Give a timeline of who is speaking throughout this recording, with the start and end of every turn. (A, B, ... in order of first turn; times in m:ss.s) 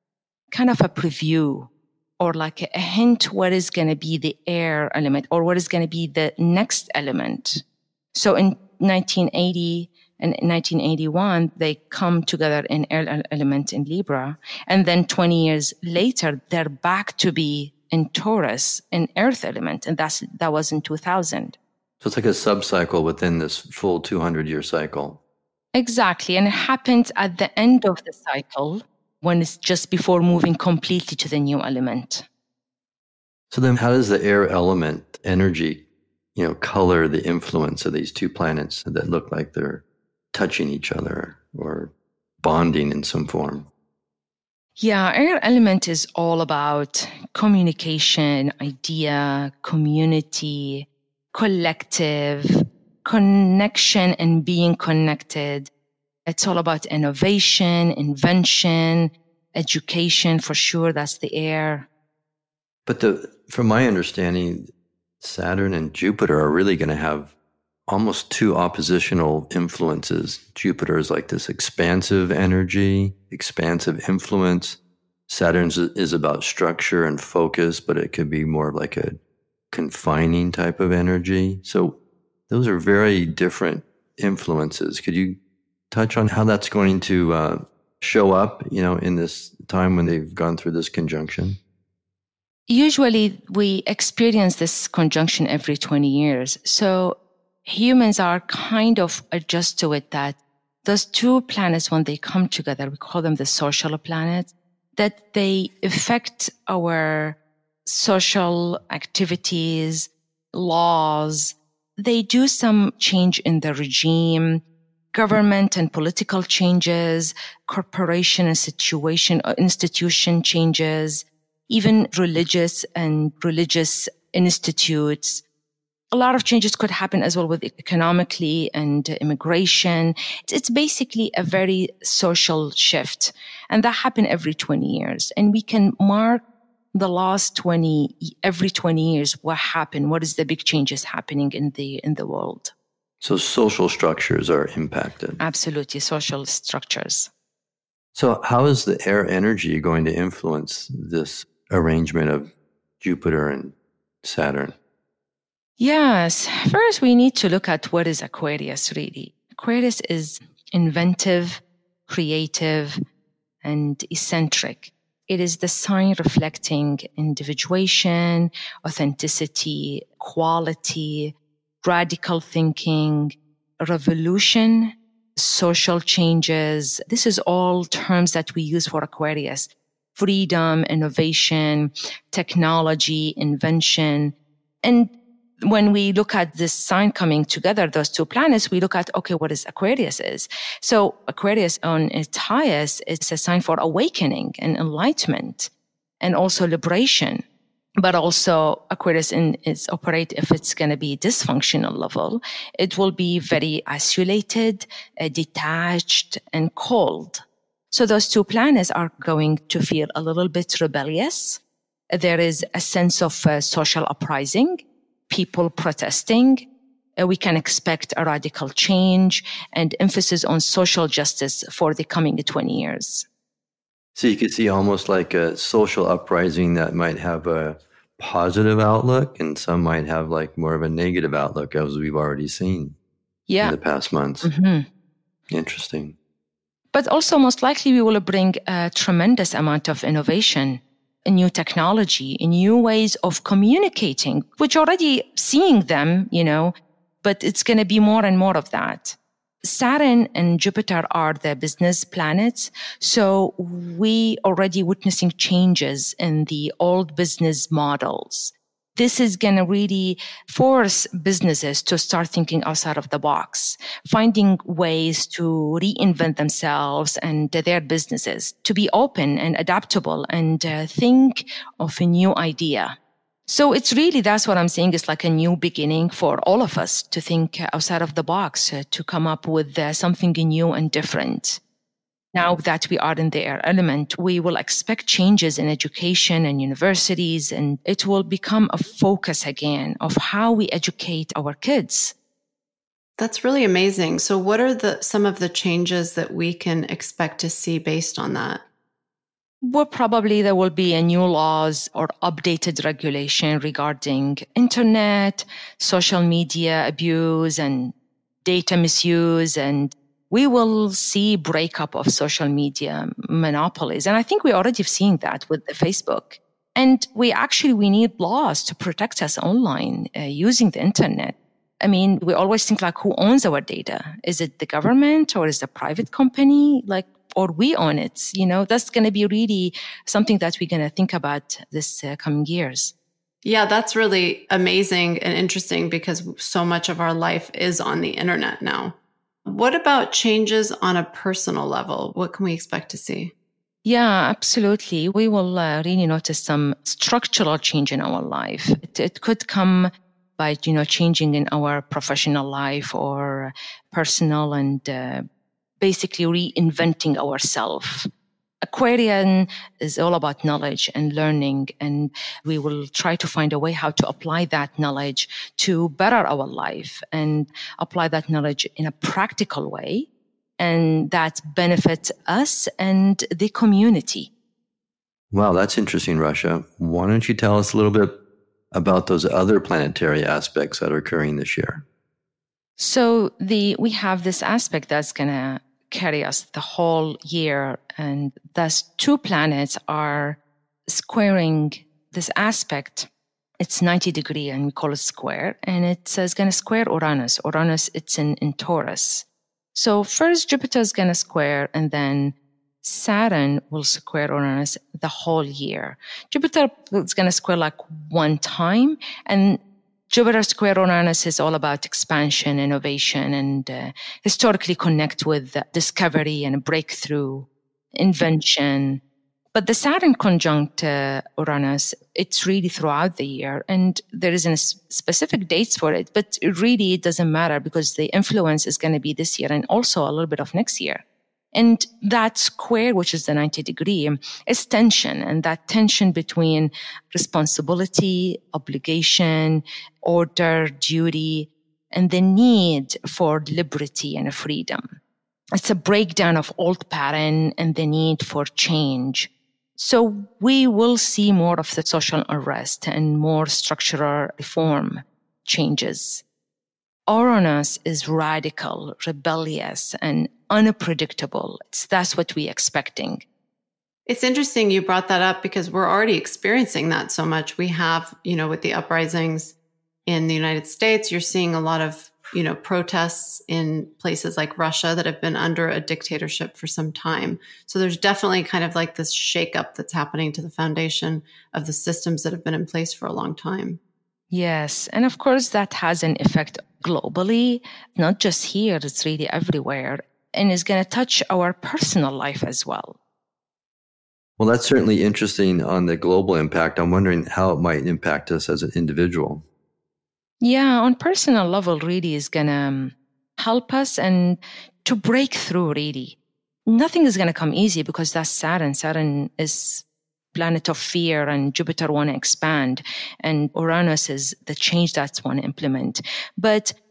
0:00.5-0:07.6 A
0:08.1-0:21.6 A
0:22.0-0:25.2 B
0:25.7-0:32.2 A
0:33.5-0:35.8 B
0:36.3-0:43.7 B
0:44.8-0:55.7 A
0:56.3-1:01.9 A
1:02.8-1:07.3 B
1:07.9-1:25.4 B
1:25.9-1:31.6 B
1:32.7-1:54.6 A
1:55.1-2:05.4 A
2:06.1-2:22.7 A
2:23.2-2:25.4 B
2:25.4-2:27.3 A
2:28.1-2:34.7 B
2:35.8-2:43.0 A
2:43.6-3:15.7 A
3:16.2-3:17.4 A
3:18.0-3:31.6 A
3:32.1-3:36.7 A
3:37.2-3:43.2 A
3:44.2-3:53.0 B
3:53.5-3:53.8 A
3:53.6-3:54.5 B
3:54.4-3:54.9 A
3:55.5-3:56.2 B
3:56.9-4:41.6 A
4:42.3-4:52.1 A
4:53.2-4:58.6 C
4:59.6-5:07.9 A
5:08.4-5:32.9 A
5:33.4-5:43.3 C
5:43.8-5:55.2 A
5:55.8-5:58.1 A
5:58.6-6:10.1 A
6:10.6-6:14.3 A
6:15.3-6:18.2 B
6:18.7-6:21.8 B
6:22.8-6:33.1 A
6:33.6-6:59.0 A
6:59.5-7:25.0 A
7:25.5-7:36.2 A
7:37.1-7:43.2 A
7:44.0-7:49.5 C
7:50.0-8:03.8 C
8:04.3-8:13.0 A
8:14.4-8:19.4 B
8:20.4-8:36.7 A